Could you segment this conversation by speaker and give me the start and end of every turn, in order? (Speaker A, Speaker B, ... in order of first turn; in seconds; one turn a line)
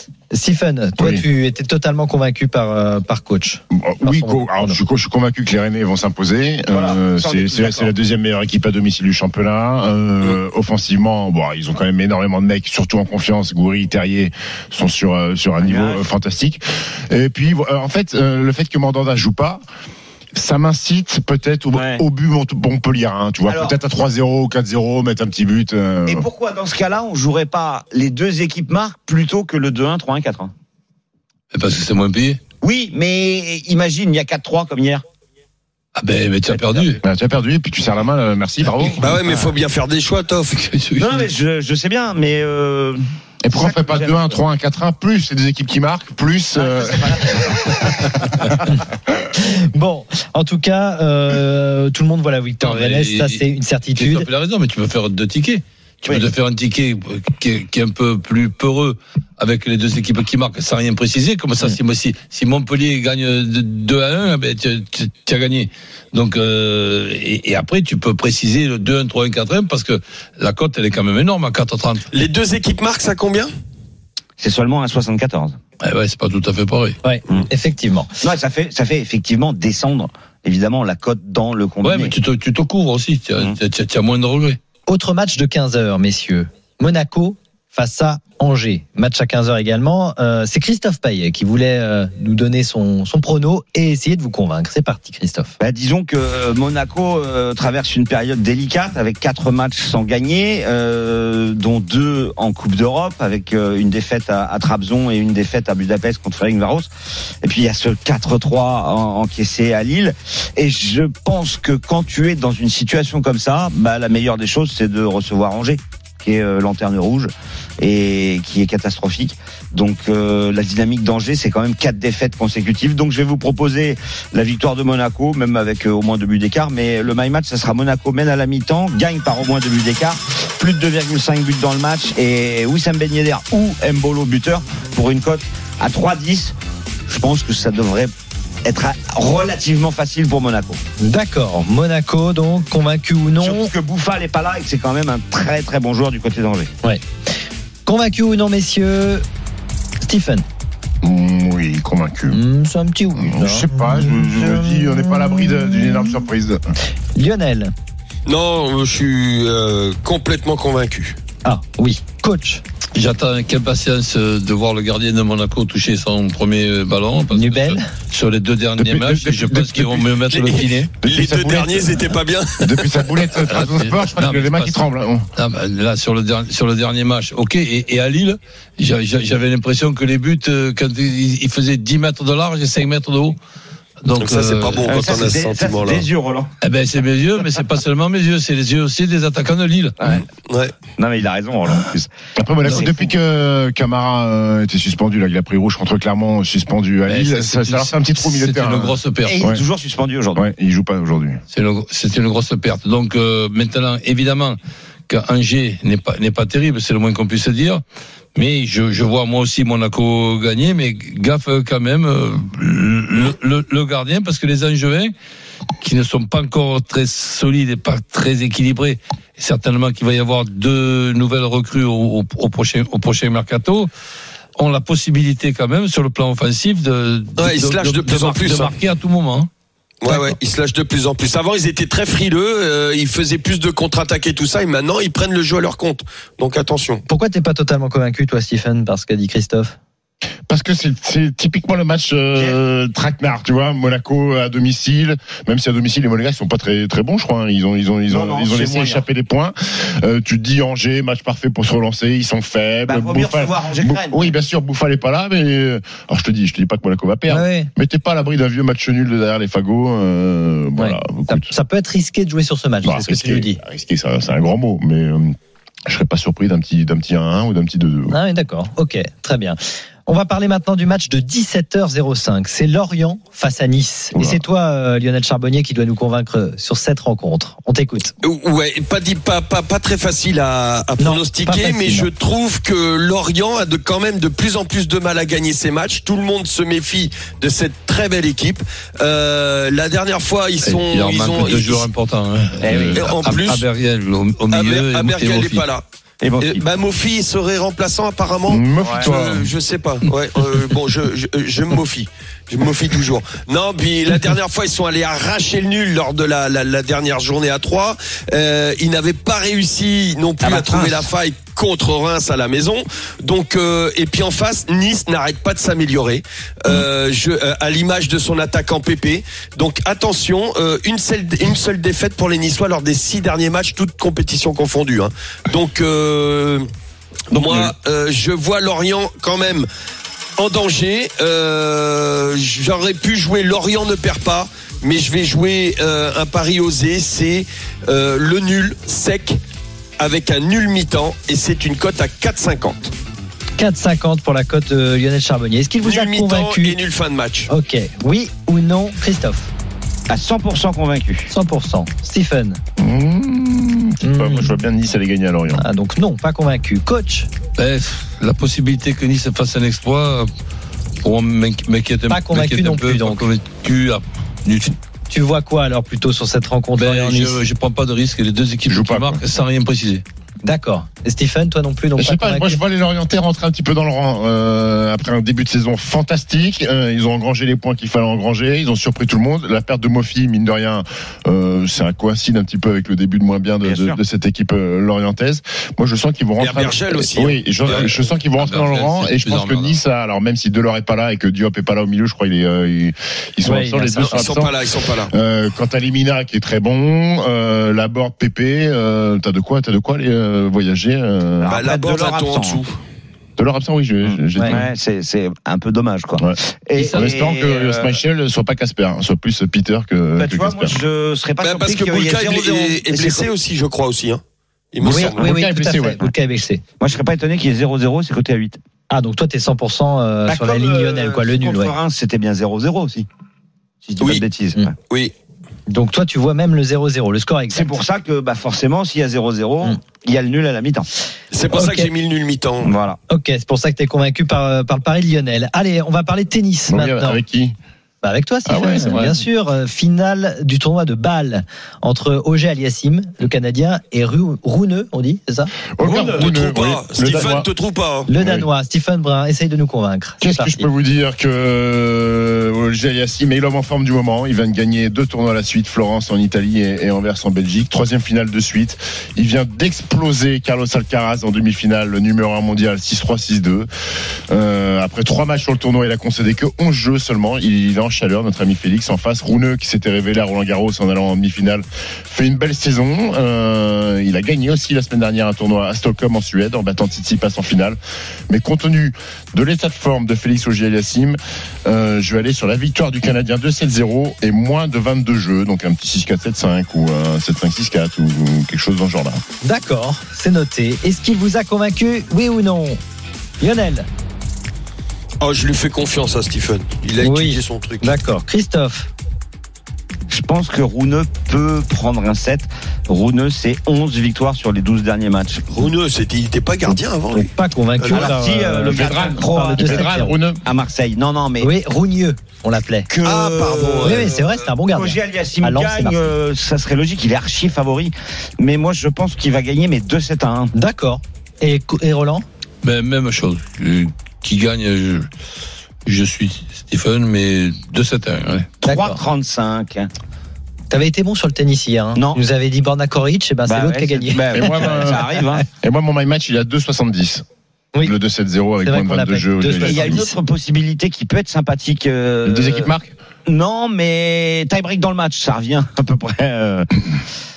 Speaker A: 0.3-4.8
Speaker B: 1.0-1.2
Speaker B: 3.7-19.6
Speaker C: 6.7-7.9
Speaker C: 15.6-16.0
Speaker B: 20.3-26.3
Speaker C: 21.7-22.0
Speaker C: 23.5-23.8
Speaker C: 26.1-30.5
Speaker D: 31.5-32.4
Speaker C: 32.6-35.0
Speaker D: 36.0-37.0
Speaker C: 36.5-37.0
Speaker B: 37.0-39.0
Speaker E: 39.0-40.6
Speaker C: 39.2-39.5
Speaker D: 40.6-41.3
Speaker C: 41.0-44.4
Speaker B: 43.4-48.2
Speaker C: 46.5-48.6
Speaker A: 49.4-54.3
Speaker D: 52.6-53.4
Speaker D: 54.0-72.1
Speaker E: 72.1-73.5
Speaker C: 74.4-75.6
Speaker D: 75.8-77.0
Speaker A: 77.0-78.1
Speaker C: 78.2-82.2
Speaker D: 81.8-84.6
Speaker A: 84.9-95.5
Speaker C: 95.6-106.9
Speaker C: 107.4-136.5
Speaker C: 137.1-138.1
Speaker C: 138.6-140.8
Speaker A: 141.0-143.7
Speaker C: 143.4-146.7
Speaker A: 147.8-149.2
Speaker A: 150.0-150.4
Speaker B: 151.0-152.4
Speaker A: 152.3-156.2
Speaker B: 153.2-156.6
Speaker A: 157.2-157.7
Speaker E: 158.3-161.2
Speaker A: 161.4-162.6
Speaker D: 162.9-170.9
Speaker A: 167.3-167.9
Speaker B: 168.8-170.1
Speaker E: 170.3-173.1
Speaker B: 171.0-175.3
Speaker D: 173.5-174.8
Speaker D: 175.4-183.4
Speaker D: 184.0-184.9
Speaker E: 184.2-186.1
Speaker C: 184.8-186.5
Speaker D: 186.6-189.9
Speaker C: 190.0-190.2
Speaker E: 190.1-190.7
Speaker C: 191.0-192.1
Speaker B: 192.3-199.6
Speaker C: 192.6-193.1
Speaker D: 197.1-199.4
Speaker C: 199.2-200.4
Speaker B: 200.3-201.4
Speaker D: 201.5-204.6
Speaker D: 205.1-207.8
Speaker D: 208.3-215.1
Speaker D: 215.8-223.9
Speaker D: 224.6-229.5
Speaker E: 227.4-228.7
Speaker E: 230.0-237.0
Speaker A: 230.1-230.3
Speaker A: 237.1-239.7
Speaker B: 240.5-261.5
Speaker C: 248.1-249.0
Speaker C: 252.9-254.3
Speaker A: 257.3-257.7
Speaker A: 260.8-263.6
Speaker B: 262.8-265.3
Speaker B: 265.9-268.2
Speaker A: 268.1-278.1
Speaker B: 274.1-274.4
Speaker E: 278.2-291.9
Speaker A: 281.0-282.1
Speaker D: 290.6-295.6
Speaker C: 292.6-293.1
Speaker E: 292.9-293.6
Speaker E: 294.5-295.8
Speaker C: 296.2-296.6
Speaker E: 296.4-326.7
Speaker B: 298.5-299.5
Speaker C: 298.8-299.1
Speaker C: 310.4-311.1
Speaker E: 327.3-329.7
Speaker C: 327.3-327.7
Speaker E: 330.4-339.4
Speaker E: 340.0-342.9
Speaker A: 343.6-346.8
Speaker E: 345.8-347.5
Speaker A: 347.5-349.5
Speaker C: 350.1-351.3
Speaker A: 351.3-352.6
Speaker B: 352.8-355.6
Speaker A: 354.0-354.6
Speaker A: 355.6-357.3
Speaker D: 357.6-360.3
Speaker D: 361.0-364.7
Speaker A: 362.1-363.2
Speaker A: 365.1-367.4
Speaker D: 366.8-370.0
Speaker B: 368.7-369.2
Speaker A: 370.4-372.6
Speaker B: 372.0-394.6
Speaker C: 383.6-384.0
Speaker E: 386.4-387.9
Speaker D: 387.7-389.8
Speaker A: 393.4-394.2
Speaker E: 394.0-395.1
Speaker B: 395.1-401.6
Speaker C: 401.4-402.6
Speaker E: 401.5-402.8
Speaker B: 403.4-404.7
Speaker C: 404.0-408.0
Speaker B: 406.2-410.8
Speaker C: 410.2-413.3
Speaker E: 411.4-414.2
Speaker E: 414.7-415.2
Speaker A: 414.8-416.6
Speaker B: 414.8-416.0
Speaker C: 416.8-418.6
Speaker A: 418.9-421.7
Speaker C: 420.3-423.1
Speaker C: 423.8-424.6
Speaker A: 425.7-427.8
Speaker C: 427.5-430.9
Speaker E: 431.3-432.7
Speaker A: 431.5-431.9
Speaker C: 432.6-433.0
Speaker A: 433.1-437.2
Speaker B: 436.7-437.6
Speaker A: 438.0-445.5
Speaker B: 438.4-439.2
Speaker B: 445.8-447.5
Speaker C: 445.8-446.3
Speaker E: 446.1-448.1
Speaker A: 448.1-450.7
Speaker B: 448.1-448.5
Speaker B: 450.2-463.7
Speaker B: 464.3-477.8
Speaker B: 478.3-489.2
Speaker A: 489.4-492.8
Speaker A: 493.4-493.9
Speaker E: 495.2-497.9
Speaker A: 497.0-498.9
Speaker C: 500.1-505.6
Speaker E: 505.5-508.1
Speaker A: 507.1-510.2
Speaker C: 507.9-509.9
Speaker B: 508.6-510.4
Speaker C: 510.4-511.5
Speaker A: 511.4-512.9
Speaker C: 512.9-520.5
Speaker E: 513.0-514.3
Speaker A: 513.8-516.0
Speaker A: 520.5-522.2
Speaker D: 522.6-525.1
Speaker D: 525.9-528.5
Speaker C: 528.6-529.9
Speaker A: 528.6-529.0
Speaker A: 530.7-534.8
Speaker C: 532.0-532.2
Speaker C: 533.5-535.4
Speaker B: 534.3-537.2
Speaker B: 537.8-540.0
Speaker A: 538.6-540.1
Speaker C: 539.6-542.7
Speaker B: 542.2-542.9
Speaker C: 543.3-547.0